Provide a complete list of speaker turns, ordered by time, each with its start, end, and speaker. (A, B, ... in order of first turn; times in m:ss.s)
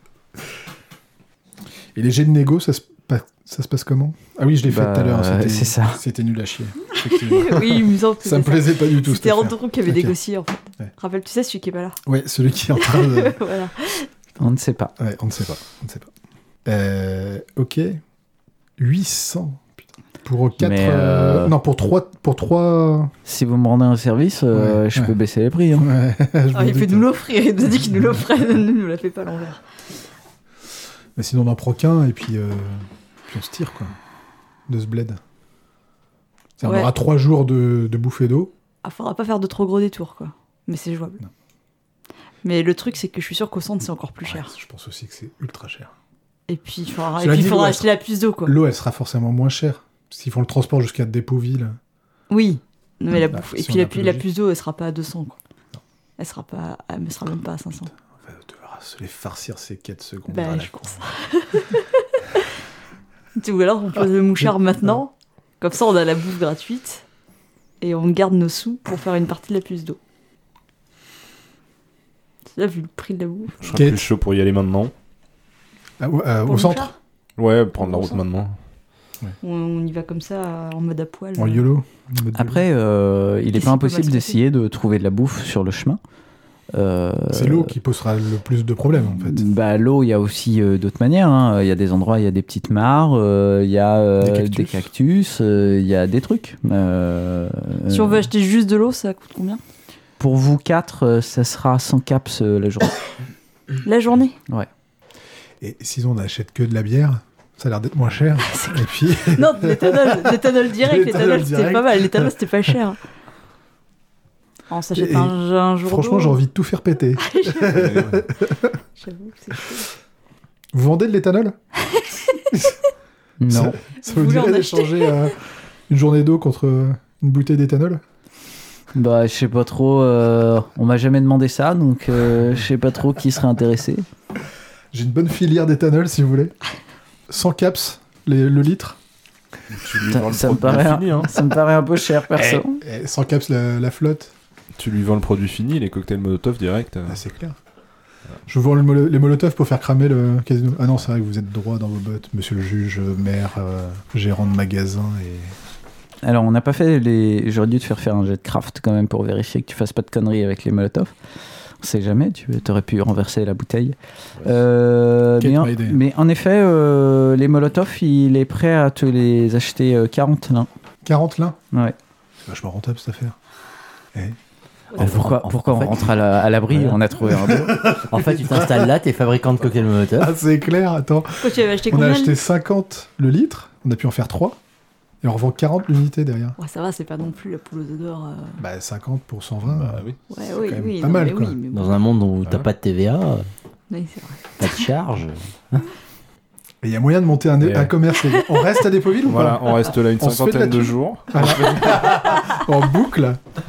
0:01.9-0:10.1 A
0:04.7-0:06.0 B
0:07.1-0:12.0 C
0:12.0-0:13.4 A
0:12.8-0:14.1 C
0:14.4-0:14.9 B
0:15.0-0:16.1 A
0:16.6-0:18.0 A
0:18.8-0:23.1 A
0:20.6-0:21.6 B
0:23.2-0:25.9 B
0:24.5-0:25.1 A
0:25.8-0:27.1 A
0:26.5-0:29.6 C
0:31.2-0:34.0 A
0:34.7-0:35.2 A
0:36.6-0:38.5 A
0:36.6-0:36.9 C
0:38.8-0:41.2 C
0:42.4-0:44.5 C
0:44.2-0:45.9 A
0:46.5-0:48.6 C
0:47.2-0:47.9 A
0:48.4-0:51.8 A
0:52.3-0:55.4 C
0:53.2-0:54.3 A
0:56.2-0:57.9 C
0:58.2-1:01.0 A
1:00.3-1:02.4 C
1:03.4-1:07.0 C
1:04.4-1:04.9 A
1:07.8-1:10.0 C
1:12.5-1:13.7 C
1:13.6-1:14.9 D
1:13.7-1:14.0 A
1:16.0-1:16.9 A
1:16.4-1:16.9 C
1:17.4-1:18.6 D
1:17.8-1:18.2 C
1:19.4-1:21.6 C
1:21.4-1:22.6 A
1:22.3-1:26.0 B
1:23.5-1:24.4 C
1:26.7-1:27.7 B
1:27.3-1:29.4 A
1:29.2-1:38.3 B
1:34.2-1:34.9 A
1:37.9-1:39.6 C
1:40.2-1:43.0 B
1:43.8-1:44.4 C
1:45.6-1:52.7 A
1:48.5-1:53.0 C
1:54.7-1:56.4 C
1:54.9-1:58.7 A
1:57.2-1:57.8 C
1:57.7-1:58.2 D
1:59.0-1:59.9 C
2:00.7-2:01.6 A
2:02.0-2:02.4 C
2:03.4-2:03.8 B
2:03.5-2:05.4 A
2:04.0-2:05.3 C
2:05.9-2:08.0 A
2:08.9-2:14.0 B
2:14.9-2:16.5 A
2:17.3-2:19.0 A
2:19.7-2:21.4 D
2:20.1-2:22.8 B
2:22.4-2:24.3 A
2:24.8-2:27.2 D
2:27.1-2:27.6 A
2:28.5-2:35.5 A
2:36.2-2:41.1 B
2:41.8-2:50.7 B
2:45.4-2:46.0 A
2:51.0-2:51.6 A
2:52.4-2:53.4 A
2:55.0-2:57.0 E
2:55.0-2:57.7 B
2:57.2-2:58.9 A
2:57.8-3:00.3 E
3:00.1-3:04.6 A
3:01.4-3:02.4 C
3:05.2-3:06.5 A
3:06.6-3:08.6 C
3:08.6-3:11.6 A
3:09.7-3:10.2 D
3:10.3-3:12.0 C
3:11.7-3:13.5 E
3:13.9-3:14.8 C
3:14.6-3:15.8 E
3:16.8-3:23.4 A
3:17.6-3:17.9 D
3:18.2-3:18.7 C
3:19.2-3:22.4 D